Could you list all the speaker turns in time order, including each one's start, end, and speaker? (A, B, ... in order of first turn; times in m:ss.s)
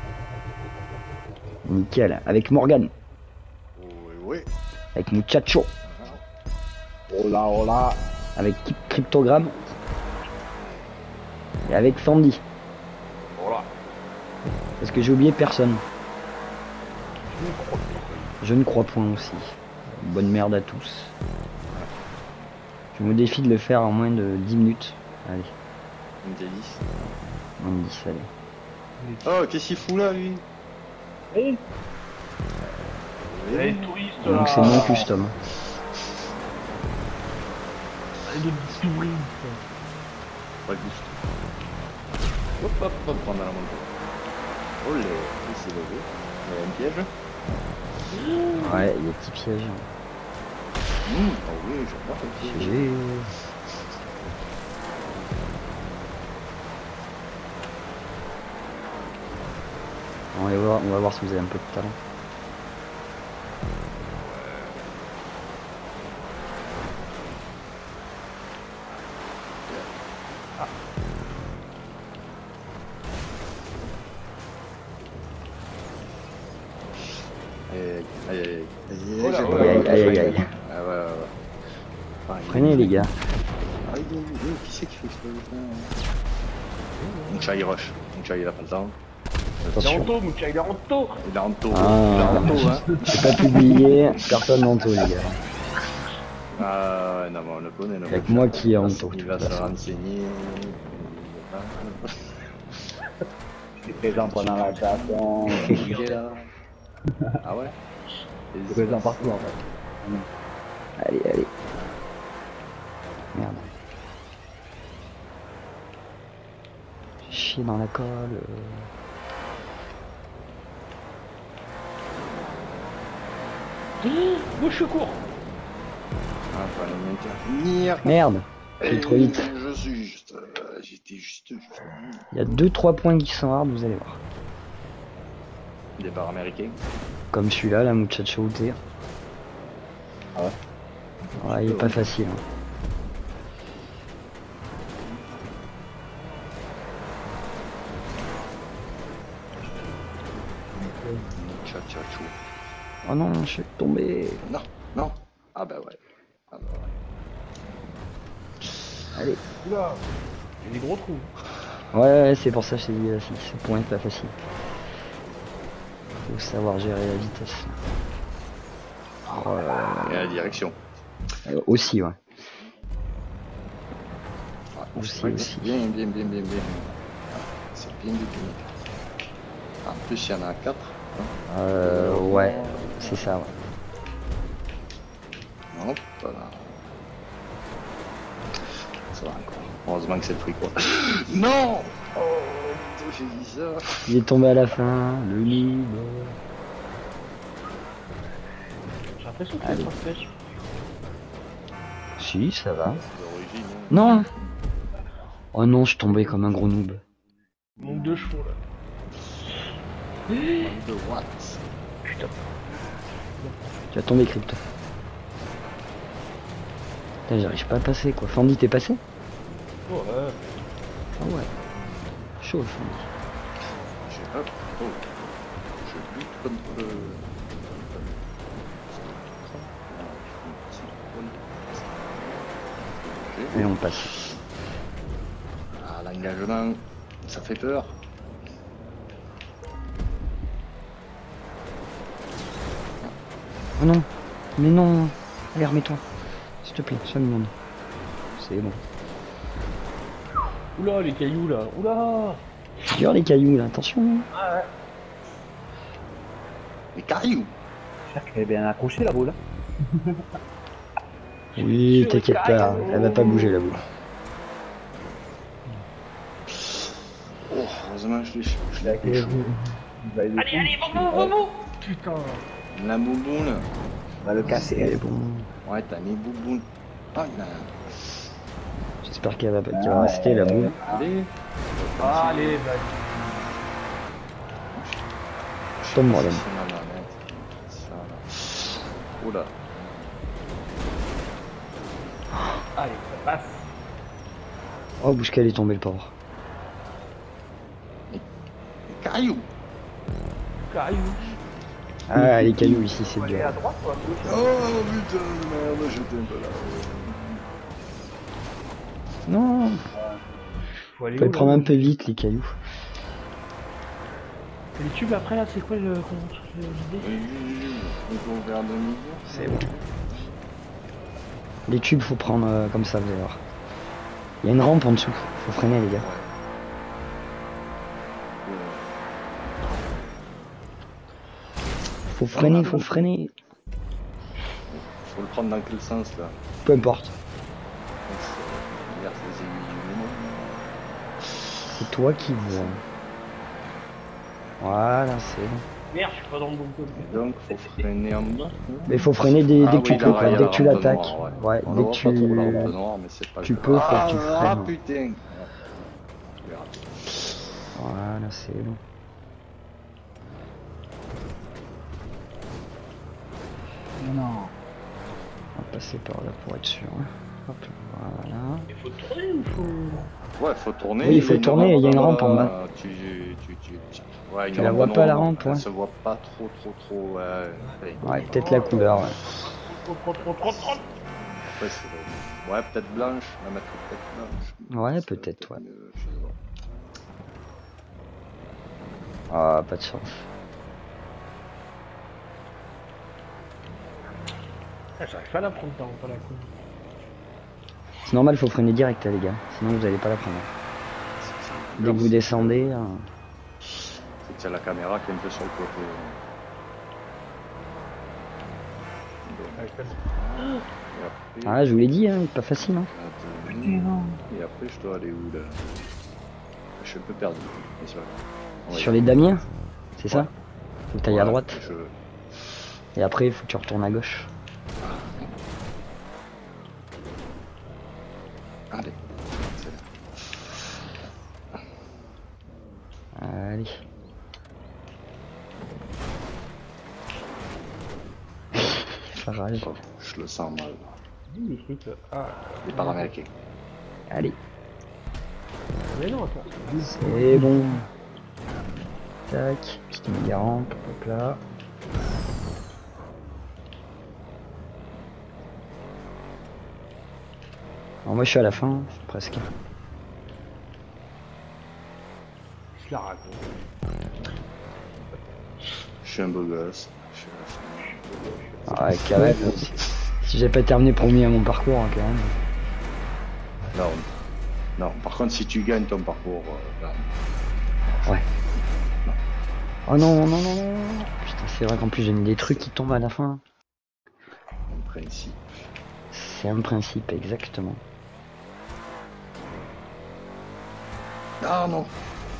0:01.7-0:02.9 A
0:03.8-0:04.5 B
0:05.0-0:05.7 A
0:05.8-0:06.2 B
0:07.1-0:08.0 C
0:08.4-0:09.6 A
0:11.7-0:12.4 A
0:13.4-0:13.7 D
0:14.8-0:15.8 A
0:17.2-0:18.3 D
0:18.4-0:21.1 A
0:23.0-0:25.5 A
0:26.2-0:26.9 B
0:27.6-0:28.3 A
0:29.0-0:29.2 D
0:29.2-0:30.4 B
0:33.3-0:35.0 B
0:33.5-0:35.1 D
0:34.2-0:35.3 A
0:38.2-0:39.6 D
0:40.7-0:41.2 B
0:42.6-0:43.2 D
0:43.0-0:43.9 B
0:44.8-0:47.1 B
0:48.1-0:48.9 D
0:48.6-0:49.9 A
0:51.0-0:52.9 B
0:52.4-0:53.3 A
1:00.3-1:02.0 A
1:17.7-1:21.3 B
1:19.2-1:20.4 D
1:19.4-1:20.4 A
1:22.3-1:23.1 B
1:22.4-1:23.1 A
1:23.8-1:25.9 B
1:27.0-1:27.5 D
1:27.3-1:29.0 B
1:29.6-1:30.0 B
1:29.7-1:30.1 A
1:29.8-1:31.2 D
1:31.2-1:33.9 B
1:31.7-1:32.6 A
1:32.4-1:32.7 D
1:33.1-1:35.4 A
1:36.6-1:42.0 B
1:38.1-1:39.8 A
1:43.8-1:45.9 C
1:44.0-1:46.5 B
1:45.7-1:46.2 D
1:47.4-1:47.7 B
1:48.5-1:49.4 B
1:48.7-1:50.3 C
1:51.0-1:51.5 A
1:53.3-1:53.7 A
1:57.2-1:58.9 A
2:04.0-2:05.2 D
2:06.5-2:08.2 B
2:08.0-2:09.5 A
2:08.8-2:12.2 B
2:12.3-2:14.2 A
2:16.0-2:16.8 B
2:17.3-2:18.8 A
2:21.4-2:22.4 A
2:21.4-2:22.1 B
2:30.8-2:31.2 C
2:31.3-2:32.4 B
2:33.0-2:34.4 A
2:34.4-2:36.0 B
2:36.5-2:36.9 B
2:39.1-2:39.4 A
2:39.6-2:40.0 D
2:40.6-2:41.3 D
2:41.9-2:44.3 A
2:46.2-2:47.8 A
2:49.3-2:50.6 A
2:50.0-2:50.8 B
2:51.4-2:52.2 A
2:54.7-2:58.7 B
2:55.0-2:55.8 A
2:59.8-3:03.3 B
3:01.5-3:03.5 A
3:05.7-3:06.8 B
3:09.1-3:14.1 B
3:14.1-3:16.4 A
3:19.2-3:20.3 D
3:19.6-3:19.9 A
3:22.2-3:23.0 A
3:22.9-3:24.4 B
3:23.9-3:24.3 A
3:25.5-3:27.0 A
3:27.8-3:28.6 D
3:30.3-3:30.6 D
3:30.5-3:31.7 B
3:32.0-3:32.4 D
3:33.4-3:33.7 D
3:33.9-3:34.6 A
3:37.3-3:39.0 A
3:39.9-3:40.4 D
3:41.2-3:41.5 A
3:42.4-3:43.1 A
3:44.0-3:45.2 B
3:45.8-3:54.4 B
3:53.5-3:54.1 A
3:55.8-3:58.0 B
4:03.8-4:06.0 A
4:06.6-4:07.5 A
4:08.4-4:08.8 A
4:10.8-4:12.4 D
4:12.9-4:14.3 A
4:14.3-4:14.7 D
4:16.9-4:17.5 B
4:18.1-4:19.4 C
4:21.6-4:23.4 D
4:21.6-4:23.8 A
4:22.9-4:23.3 B
4:27.5-4:29.5 B
4:28.8-4:31.3 C
4:30.4-4:32.4 D
4:32.7-4:33.7 B
4:34.2-4:35.0 C
4:34.4-4:35.5 A
4:35.6-4:38.0 B
4:39.0-4:40.8 A
4:39.7-4:41.1 C
4:40.6-4:42.6 B
4:42.0-4:43.2 D
4:44.7-4:45.1 B
4:45.8-4:50.1 B
4:45.9-4:46.4 A
4:52.8-4:53.6 D
4:55.0-4:56.1 A
4:58.9-4:59.5 B
5:00.6-5:01.4 D
5:02.1-5:03.6 A
5:02.1-5:03.5 C
5:03.2-5:04.6 D
5:04.1-5:04.4 C
5:04.2-5:07.4 B
5:09.3-5:09.8 A
5:09.9-5:10.2 C
5:10.8-5:11.8 D
5:11.2-5:12.6 A
5:14.8-5:17.1 D
5:17.0-5:19.8 B
5:19.3-5:19.7 D
5:19.3-5:19.6 A
5:21.7-5:23.4 A
5:24.4-5:26.1 A
5:26.0-5:26.3 B
5:28.4-5:28.9 B
5:32.1-5:33.3 A
5:32.3-5:33.1 B
5:32.3-5:32.9 D
5:34.7-5:36.4 B
5:36.6-5:37.1 A
5:38.1-5:40.6 B
5:41.7-5:42.8 A
5:42.4-5:42.7 B
5:44.6-5:45.6 A
5:45.9-5:47.8 D
5:46.9-5:55.7 B
5:48.9-5:52.7 A
5:51.8-5:52.7 C
5:53.4-5:54.7 A
5:56.2-5:57.4 B
5:57.8-5:58.8 A
6:04.0-6:04.5 C
6:05.6-6:08.7 A
6:08.7-6:10.1 D
6:10.4-6:18.0 B
6:11.0-6:12.5 A
6:14.5-6:15.6 A
6:18.0-6:20.8 D
6:18.0-6:19.1 A
6:20.2-6:26.4 B
6:24.7-6:25.6 A
6:29.3-6:30.2 A
6:35.0-6:36.6 D
6:38.1-6:40.5 A
6:41.2-6:42.8 B
6:41.8-6:43.0 A
6:44.2-6:46.2 B
6:49.3-6:51.6 B
6:49.6-6:50.6 D
6:51.4-6:52.9 A
6:52.9-6:55.6 B
6:53.5-6:54.2 C
6:56.8-6:59.2 B
6:58.7-6:59.4 A
7:00.0-7:00.3 A
7:00.9-7:01.6 A
7:01.1-7:01.9 B
7:03.0-7:04.3 A
7:04.8-7:05.3 B
7:08.7-7:10.7 B
7:13.1-7:13.8 A
7:19.0-7:19.7 A
7:19.6-7:21.0 B
7:21.3-7:23.1 D
7:22.6-7:23.3 B
7:24.1-7:24.4 A
7:25.9-7:27.6 D
7:26.8-7:27.9 A
7:29.3-7:31.4 A
7:38.0-7:39.5 A
7:42.8-7:43.4 D
7:46.0-7:48.0 B
7:48.0-7:48.7 D
7:48.7-7:52.3 A
7:49.2-7:49.5 C
7:53.7-7:54.1 B
7:54.8-7:57.1 B
7:57.8-7:58.2 B
7:59.9-8:03.4 A
8:04.7-8:05.4 B
8:06.1-8:07.8 A
8:11.4-8:11.9 B